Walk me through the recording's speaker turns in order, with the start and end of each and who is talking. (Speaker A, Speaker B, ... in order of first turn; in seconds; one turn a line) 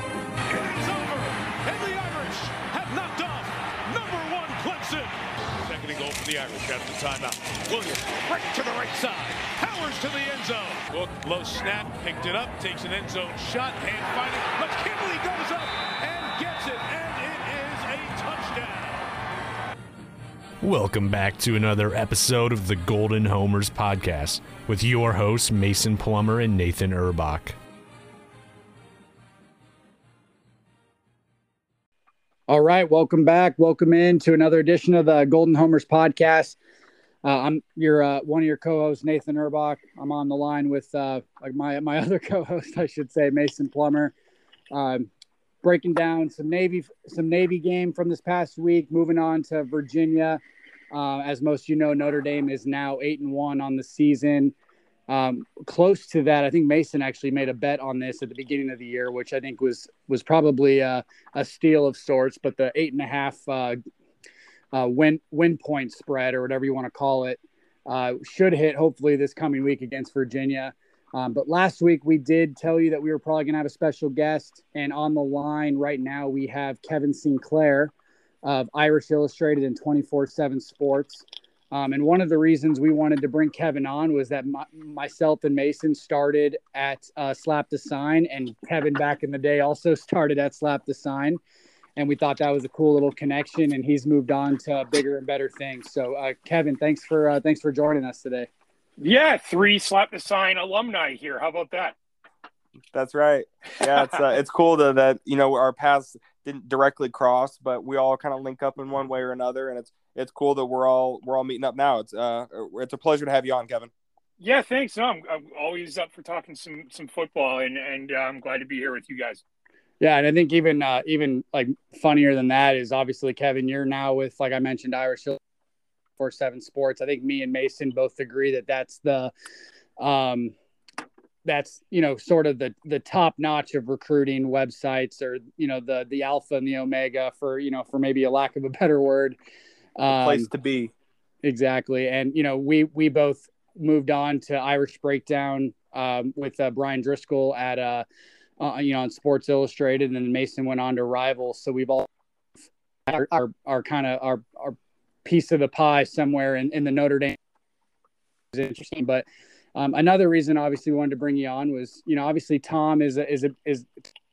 Speaker A: 0.5-19.2
Speaker B: 20.6-27.6
Speaker C: 32.5-36.6
Speaker C: 37.2-44.1
Speaker C: 44.7-45.1
Speaker C: 45.6-54.5
Speaker C: 55.1-63.8
Speaker C: 64.7-91.4
Speaker C: 92.0-98.5
Speaker D: 99.0-102.0
Speaker E: 102.9-113.9
Speaker D: 114.4-119.4
Speaker C: 120.0-125.4
Speaker C: 126.2-129.3
Speaker C: 130.0-130.5
Speaker C: 131.4-139.4
Speaker C: 140.0-140.5
Speaker E: 140.1-140.9
Speaker C: 141.4-148.1
Speaker C: 148.6-152.1
Speaker C: 153.1-157.4
Speaker C: 158.5-164.1